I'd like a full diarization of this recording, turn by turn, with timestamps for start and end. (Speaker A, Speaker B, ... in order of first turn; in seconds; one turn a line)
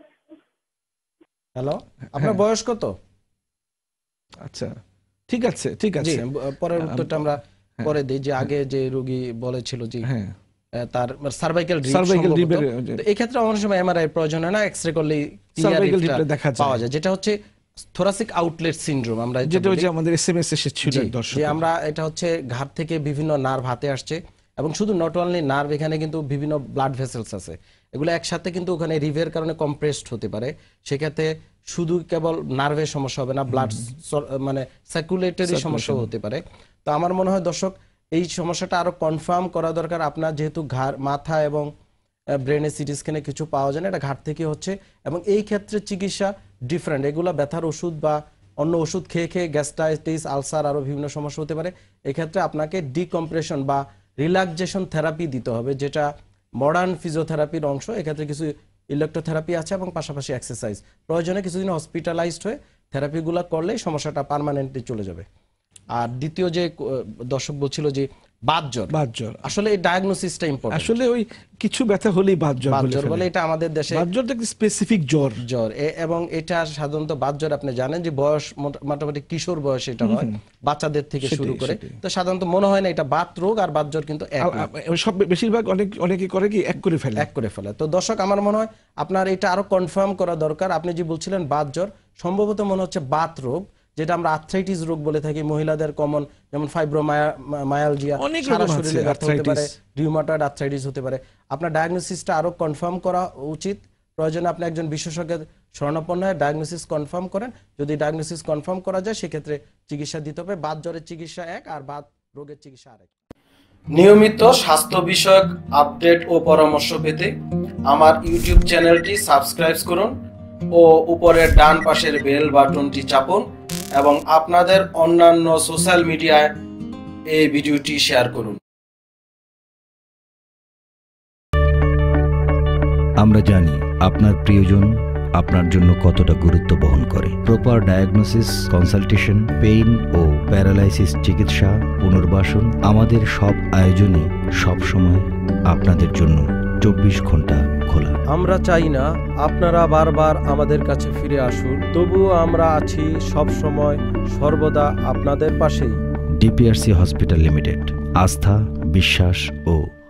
Speaker A: 1.6-2.9
Speaker B: 4.4-4.8
Speaker B: 5.3-6.2
Speaker A: 6.0-10.1
Speaker B: 6.8-7.9
Speaker B: 10.0-10.3
Speaker A: 10.8-17.3
Speaker B: 11.9-13.0
Speaker B: 15.6-16.8
Speaker A: 17.9-19.9
Speaker B: 19.5-21.6
Speaker A: 20.8-41.7
Speaker B: 35.5-36.1
Speaker A: 42.4-56.1
Speaker A: 56.6-65.2
Speaker A: 65.9-68.9
Speaker B: 68.9-69.4
Speaker A: 69.4-70.9
Speaker B: 70.7-73.2
Speaker A: 72.6-74.0
Speaker B: 73.9-75.4
Speaker A: 75.4-84.7
Speaker B: 80.0-80.3
Speaker B: 81.2-82.0
Speaker B: 84.4-87.3
Speaker A: 87.2-113.1
Speaker B: 98.2-99.7
Speaker A: 113.9-117.3
Speaker A: 117.9-120.1
Speaker A: 120.7-126.5
Speaker A: 127.3-128.6
Speaker C: 133.2-148.2
Speaker A: 148.3-156.0
Speaker C: 156.4-159.8